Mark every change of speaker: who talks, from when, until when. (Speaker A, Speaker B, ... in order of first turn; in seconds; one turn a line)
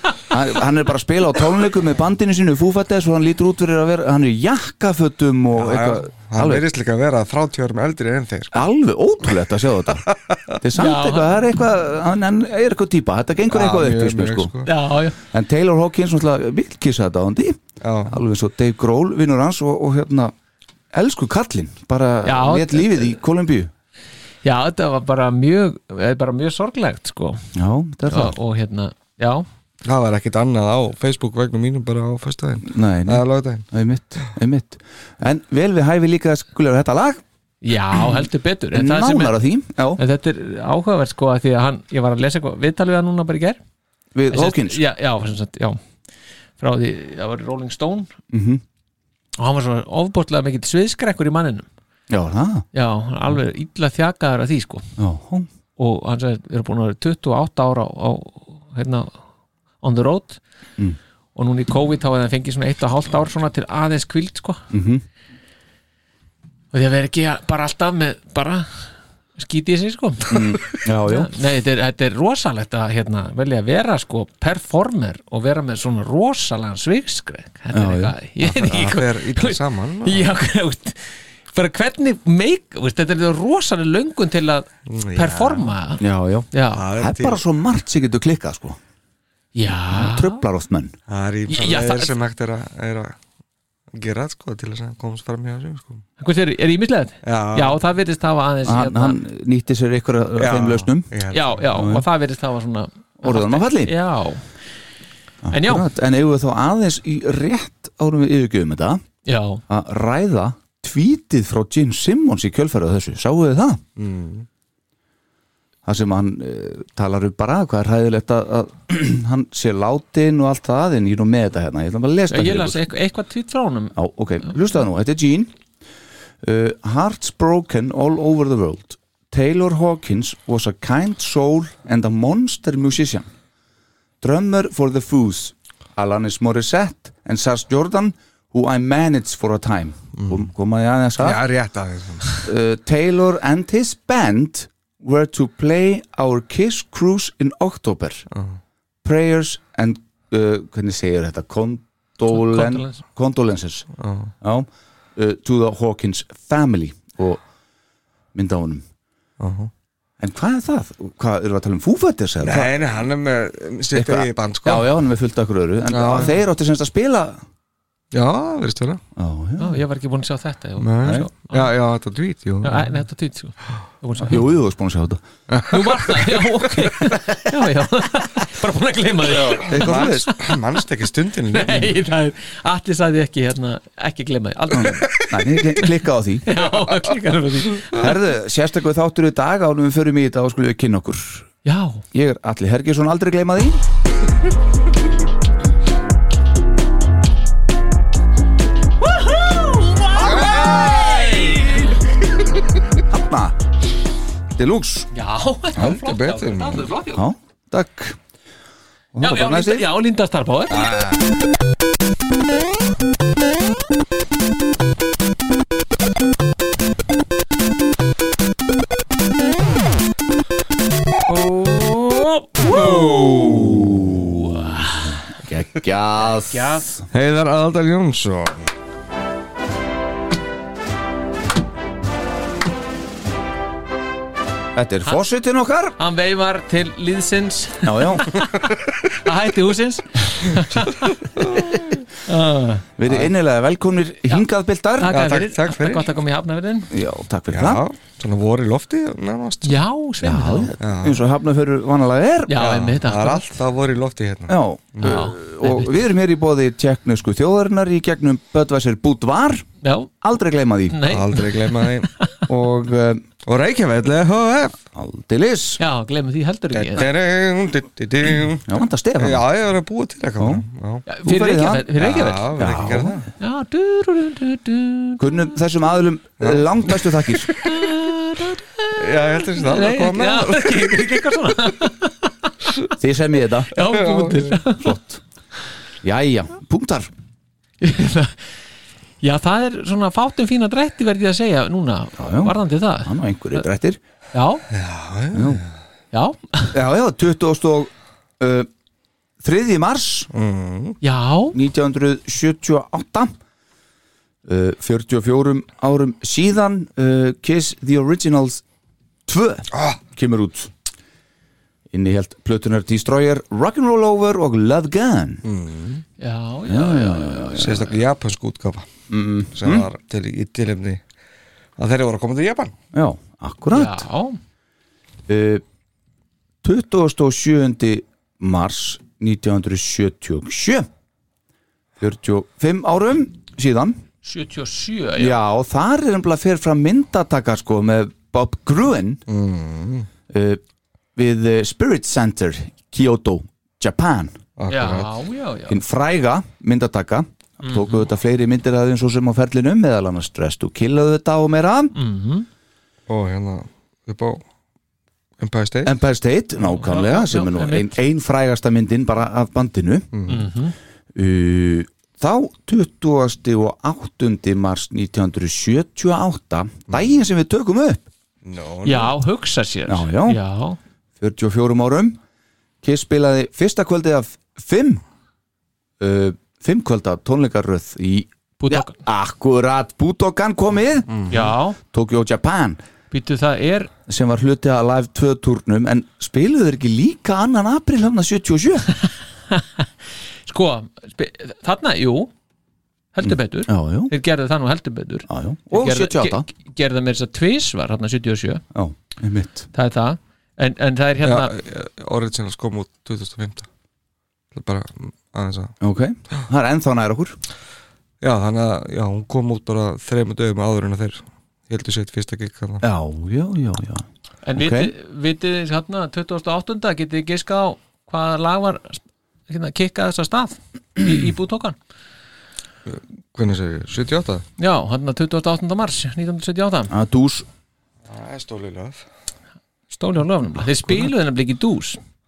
Speaker A: 0.3-6.7
Speaker B: 5.6-8.6
Speaker A: 8.5-14.5
Speaker C: 10.8-11.4
Speaker B: 13.5-14.7
Speaker C: 14.7-15.2
Speaker A: 15.3-20.3
Speaker B: 17.8-18.2
Speaker A: 20.9-23.7
Speaker C: 22.2-23.2
Speaker C: 24.4-27.4
Speaker A: 27.6-28.4
Speaker C: 28.1-29.5
Speaker B: 29.8-33.6
Speaker A: 32.6-37.2
Speaker C: 37.6-39.4
Speaker A: 38.7-40.0
Speaker C: 40.0-43.6
Speaker A: 44.1-44.8
Speaker C: 44.3-45.8
Speaker C: 46.6-48.1
Speaker A: 48.3-48.6
Speaker C: 49.4-51.7
Speaker A: 52.1-52.7
Speaker C: 52.7-54.9
Speaker A: 55.0-55.5
Speaker C: 55.8-59.2
Speaker C: 59.8-60.4
Speaker C: 61.4-64.7
Speaker A: 64.7-65.0
Speaker C: 66.7-86.8
Speaker A: 70.3-71.3
Speaker A: 77.7-78.1
Speaker B: 78.4-80.3
Speaker B: 84.9-85.7
Speaker A: 86.0-88.8
Speaker B: 86.7-87.4
Speaker C: 89.6-90.4
Speaker A: 89.9-91.0
Speaker B: 91.1-93.2
Speaker C: 91.5-92.2
Speaker B: 93.9-96.0
Speaker C: 96.2-99.2
Speaker B: 97.2-97.8
Speaker A: 98.7-101.1
Speaker B: 100.4-101.7
Speaker C: 101.3-104.5
Speaker A: 101.7-102.0
Speaker A: 103.2-103.9
Speaker A: 105.4-109.0
Speaker C: 105.5-105.9
Speaker C: 109.2-109.6
Speaker A: 109.7-113.8
Speaker B: 114.0-114.5
Speaker A: 115.8-122.8
Speaker C: 122.3-124.0
Speaker A: 124.0-125.5
Speaker A: 126.4-133.3
Speaker A: 134.2-141.4
Speaker B: 140.2-140.5
Speaker B: 141.2-142.4
Speaker A: 142.4-148.3
Speaker B: 148.3-148.6
Speaker A: 149.0-153.9
Speaker C: 152.3-153.0
Speaker B: 154.0-154.3
Speaker A: 154.4-157.4
Speaker A: 158.3-158.8
Speaker B: 159.4-159.7
Speaker A: 160.2-162.7
Speaker B: 162.4-164.9
Speaker A: 163.9-167.4
Speaker B: 165.9-166.4
Speaker B: 168.1-169.0
Speaker A: 169.2-169.8
Speaker C: 169.6-171.7
Speaker B: 170.8-173.0
Speaker C: 172.6-174.4
Speaker A: 174.3-175.2
Speaker B: 175.5-176.4
Speaker C: 175.7-180.3
Speaker B: 179.3-182.0
Speaker A: 179.7-180.3
Speaker C: 181.5-185.1
Speaker A: 184.7-186.5
Speaker C: 186.5-188.0
Speaker B: 186.7-187.0
Speaker A: 187.9-191.5
Speaker C: 191.7-192.0
Speaker A: 192.1-193.8
Speaker C: 199.0-201.9
Speaker A: 203.1-203.6
Speaker A: 204.6-205.1
Speaker C: 205.1-207.2
Speaker B: 205.8-206.9
Speaker A: 207.1-208.2
Speaker A: 209.1-209.9
Speaker C: 209.2-210.8
Speaker B: 210.8-211.1
Speaker C: 221.3-223.7
Speaker A: 222.7-227.0
Speaker B: 223.1-224.0
Speaker C: 224.3-225.1
Speaker C: 226.4-226.9
Speaker B: 227.1-228.7
Speaker A: 234.8-236.0
Speaker C: 236.0-238.5
Speaker A: 237.8-238.3
Speaker C: 239.2-241.0
Speaker B: 241.4-242.0
Speaker C: 242.3-242.8
Speaker A: 243.0-245.2
Speaker B: 243.1-243.3
Speaker C: 245.0-246.9
Speaker B: 245.1-246.1
Speaker A: 246.9-247.8
Speaker B: 247.5-249.8
Speaker C: 249.7-250.7
Speaker A: 250.2-252.7
Speaker B: 250.8-251.3
Speaker C: 252.5-253.6
Speaker B: 252.6-255.3
Speaker A: 254.5-259.6
Speaker C: 255.0-255.9
Speaker C: 259.8-260.1
Speaker A: 260.2-261.0
Speaker C: 260.9-261.5
Speaker B: 261.1-262.1
Speaker A: 262.5-263.2
Speaker B: 263.5-264.8
Speaker A: 264.9-265.8
Speaker C: 265.8-267.1
Speaker B: 266.7-271.1
Speaker A: 268.7-269.5
Speaker A: 270.4-270.6
Speaker C: 271.1-272.6
Speaker A: 271.2-271.9
Speaker B: 272.0-273.3
Speaker A: 272.6-273.2
Speaker C: 273.4-275.2
Speaker A: 275.2-277.5
Speaker B: 276.4-277.1
Speaker C: 277.6-279.0
Speaker B: 279.0-281.1
Speaker C: 279.6-282.5
Speaker A: 283.0-283.7
Speaker C: 283.7-284.9
Speaker B: 283.8-284.6
Speaker A: 284.8-285.2
Speaker A: 286.0-287.1
Speaker C: 287.8-288.5
Speaker C: 289.2-293.6
Speaker A: 292.2-294.0
Speaker C: 294.3-294.6
Speaker B: 294.7-295.7
Speaker A: 295.3-295.6
Speaker C: 296.1-296.8
Speaker A: 296.7-298.7
Speaker A: 299.4-300.3
Speaker B: 300.3-301.0
Speaker C: 301.0-301.6
Speaker A: 301.5-303.4
Speaker A: 304.4-308.6
Speaker A: 309.3-310.7
Speaker A: 311.9-315.4
Speaker B: 315.4-316.0
Speaker C: 316.2-317.9
Speaker A: 316.7-317.8
Speaker B: 317.6-318.9
Speaker A: 319.1-319.9
Speaker B: 319.5-321.0
Speaker B: 321.8-322.7
Speaker A: 322.9-324.1
Speaker C: 323.7-324.4
Speaker A: 325.3-325.6
Speaker A: 326.6-330.9
Speaker A: 332.0-334.0
Speaker C: 334.2-335.4
Speaker A: 335.2-339.2
Speaker B: 339.3-340.1
Speaker A: 340.3-340.6
Speaker A: 341.2-344.4
Speaker B: 344.6-345.1
Speaker C: 344.7-345.8
Speaker A: 345.7-351.9
Speaker C: 347.6-348.1
Speaker C: 351.9-352.5
Speaker B: 353.1-354.4
Speaker B: 355.4-355.9
Speaker A: 355.8-360.1
Speaker C: 356.6-358.0
Speaker B: 360.1-360.4
Speaker C: 360.3-360.8
Speaker A: 361.1-368.1
Speaker B: 368.4-369.1
Speaker C: 368.9-370.8
Speaker A: 369.9-370.4
Speaker A: 371.2-372.2
Speaker A: 372.8-375.0
Speaker A: 376.0-382.8
Speaker C: 378.6-379.0
Speaker C: 381.3-381.8
Speaker C: 383.1-383.9
Speaker A: 384.1-388.9
Speaker C: 389.5-389.9
Speaker C: 390.5-392.3
Speaker C: 393.1-398.6
Speaker A: 393.2-394.1
Speaker A: 395.3-396.5
Speaker A: 398.7-399.7
Speaker C: 399.7-401.5
Speaker B: 401.2-403.7
Speaker B: 404.5-405.7
Speaker A: 405.8-407.4
Speaker B: 408.2-412.8
Speaker A: 412.8-414.1
Speaker C: 414.4-421.8
Speaker A: 414.6-414.9
Speaker B: 422.9-424.4
Speaker C: 424.6-426.9
Speaker A: 426.9-427.5
Speaker B: 428.1-429.0
Speaker C: 429.9-432.0